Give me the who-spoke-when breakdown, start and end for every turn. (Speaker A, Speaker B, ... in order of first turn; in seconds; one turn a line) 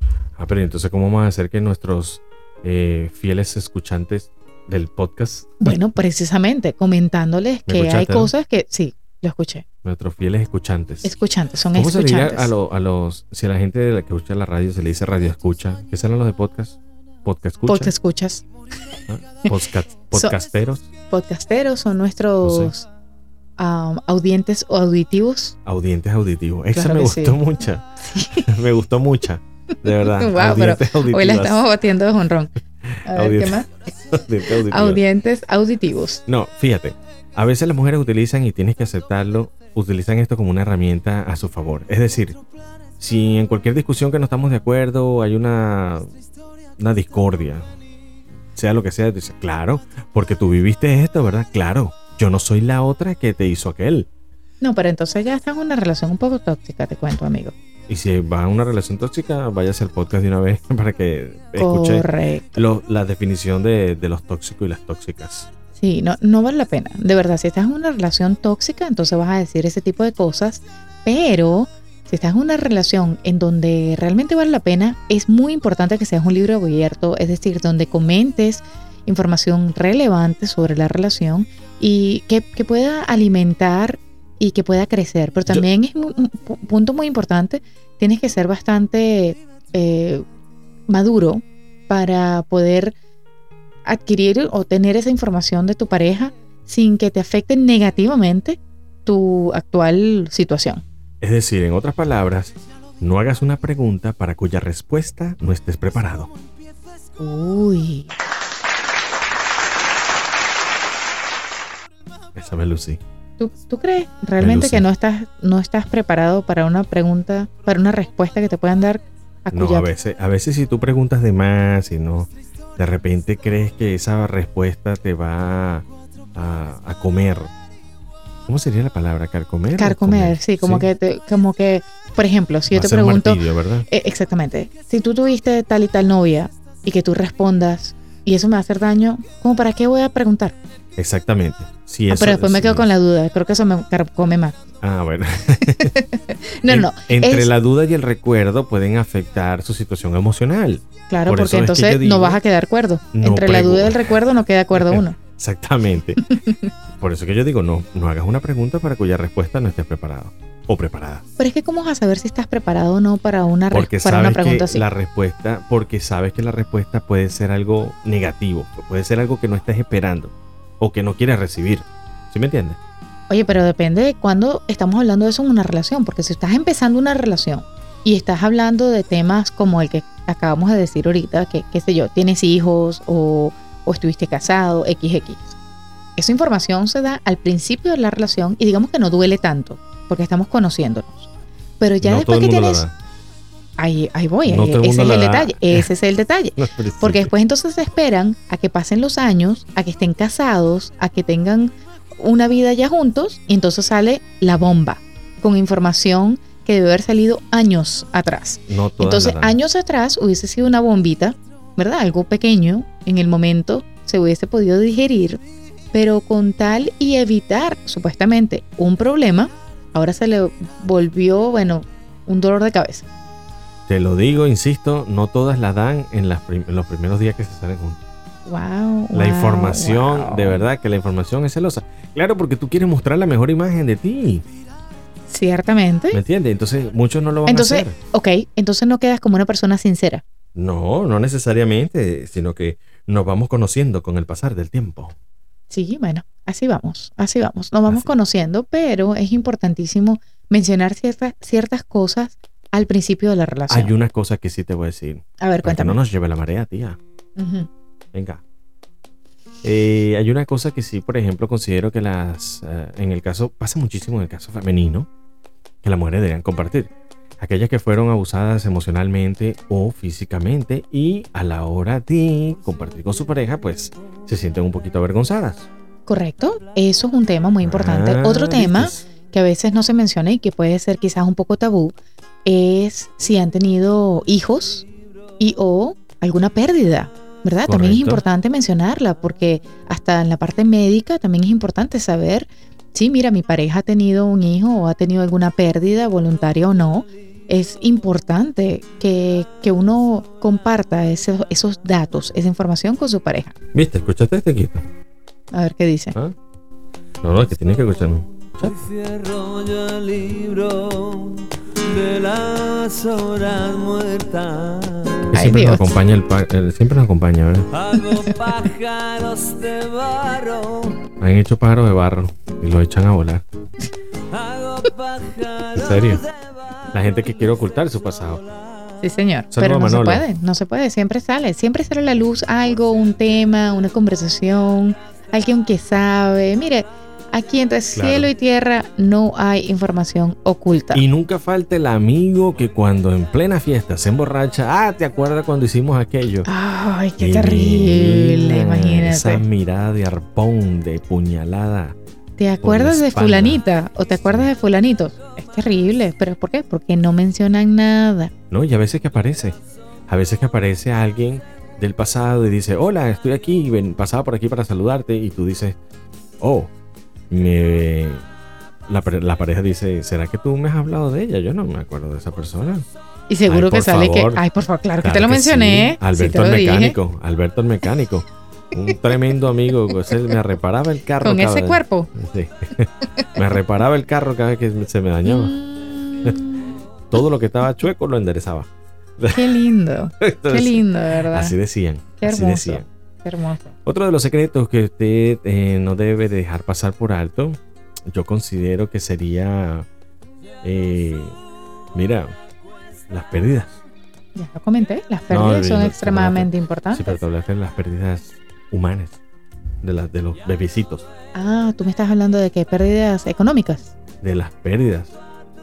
Speaker A: 0.4-5.7
Speaker B: 5.6-9.6
Speaker A: 7.7-8.3
Speaker A: 9.8-11.1
Speaker B: 11.0-12.5
Speaker A: 11.7-17.9
Speaker B: 17.7-18.4
Speaker A: 19.1-20.9
Speaker B: 21.1-22.9
Speaker A: 22.4-22.7
Speaker B: 23.6-25.6
Speaker A: 25.6-31.6
Speaker B: 26.7-27.4
Speaker B: 28.0-28.5
Speaker B: 29.9-32.5
Speaker A: 32.9-35.0
Speaker B: 33.0-33.7
Speaker B: 34.6-36.2
Speaker A: 36.3-42.4
Speaker A: 43.0-46.1
Speaker A: 46.8-47.6
Speaker A: 48.5-54.1
Speaker B: 54.6-57.5
Speaker A: 57.9-65.5
Speaker B: 61.6-62.6
Speaker B: 65.7-90.2
Speaker B: 90.9-92.9
Speaker B: 93.8-100.8
Speaker A: 101.2-106.3
Speaker B: 107.2-108.2
Speaker A: 112.3-113.0
Speaker B: 113.4-119.9
Speaker A: 114.4-114.8
Speaker A: 119.5-127.5
Speaker A: 128.5-130.9
Speaker B: 129.7-140.6
Speaker A: 132.7-133.9
Speaker A: 141.0-142.9
Speaker B: 142.1-144.6
Speaker A: 144.8-145.9
Speaker B: 145.8-147.5
Speaker A: 146.7-152.4
Speaker B: 151.1-155.2
Speaker A: 153.1-154.1
Speaker A: 154.7-156.2
Speaker B: 156.3-156.7
Speaker A: 157.0-161.2
Speaker B: 161.4-164.8
Speaker A: 163.7-172.8
Speaker B: 173.3-185.6
Speaker B: 186.2-192.8
Speaker A: 192.0-192.9
Speaker B: 193.8-215.4
Speaker A: 194.4-195.9
Speaker A: 196.6-197.3
Speaker A: 208.7-209.6
Speaker B: 215.9-223.1
Speaker A: 223.9-228.0
Speaker B: 228.4-230.6
Speaker A: 229.1-234.4
Speaker B: 235.3-236.2
Speaker A: 236.1-237.9
Speaker B: 237.5-240.2
Speaker A: 240.5-245.1
Speaker B: 245.7-253.9
Speaker A: 253.7-257.0
Speaker B: 255.4-256.0
Speaker B: 257.4-257.7
Speaker A: 258.1-258.4
Speaker A: 259.6-265.1
Speaker A: 265.8-275.7
Speaker B: 276.1-284.9
Speaker A: 277.6-279.0
Speaker B: 285.4-303.5
Speaker A: 287.6-288.2
Speaker A: 303.7-304.8
Speaker B: 305.5-306.1
Speaker A: 307.2-308.8
Speaker C: 308.6-315.3
Speaker B: 315.3-315.9
Speaker A: 315.3-317.7
Speaker C: 317.7-321.0
Speaker A: 321.2-323.4
Speaker C: 324.3-326.2
Speaker A: 325.7-326.2
Speaker A: 326.9-328.4
Speaker B: 329.0-341.0
Speaker A: 329.5-330.2
Speaker A: 337.9-338.3
Speaker A: 340.9-346.5
Speaker B: 346.4-349.4
Speaker A: 347.2-352.0
Speaker B: 352.4-358.3
Speaker A: 352.6-353.6
Speaker A: 358.5-359.6
Speaker A: 360.1-365.8
Speaker A: 366.4-366.7
Speaker A: 367.3-368.2
Speaker A: 368.9-372.8
Speaker B: 373.3-377.0
Speaker A: 373.4-374.4
Speaker A: 375.0-385.6
Speaker B: 379.9-380.3
Speaker B: 381.2-382.1
Speaker B: 385.2-386.8
Speaker A: 387.1-389.5
Speaker B: 389.3-391.6
Speaker A: 390.2-392.9
Speaker B: 392.2-393.7
Speaker A: 393.9-397.6
Speaker A: 398.1-399.9
Speaker A: 400.6-401.4
Speaker A: 401.9-402.3
Speaker A: 403.1-403.8
Speaker B: 404.3-407.2
Speaker A: 405.3-409.2
Speaker A: 409.8-411.1
Speaker B: 411.3-413.9
Speaker A: 414.2-415.2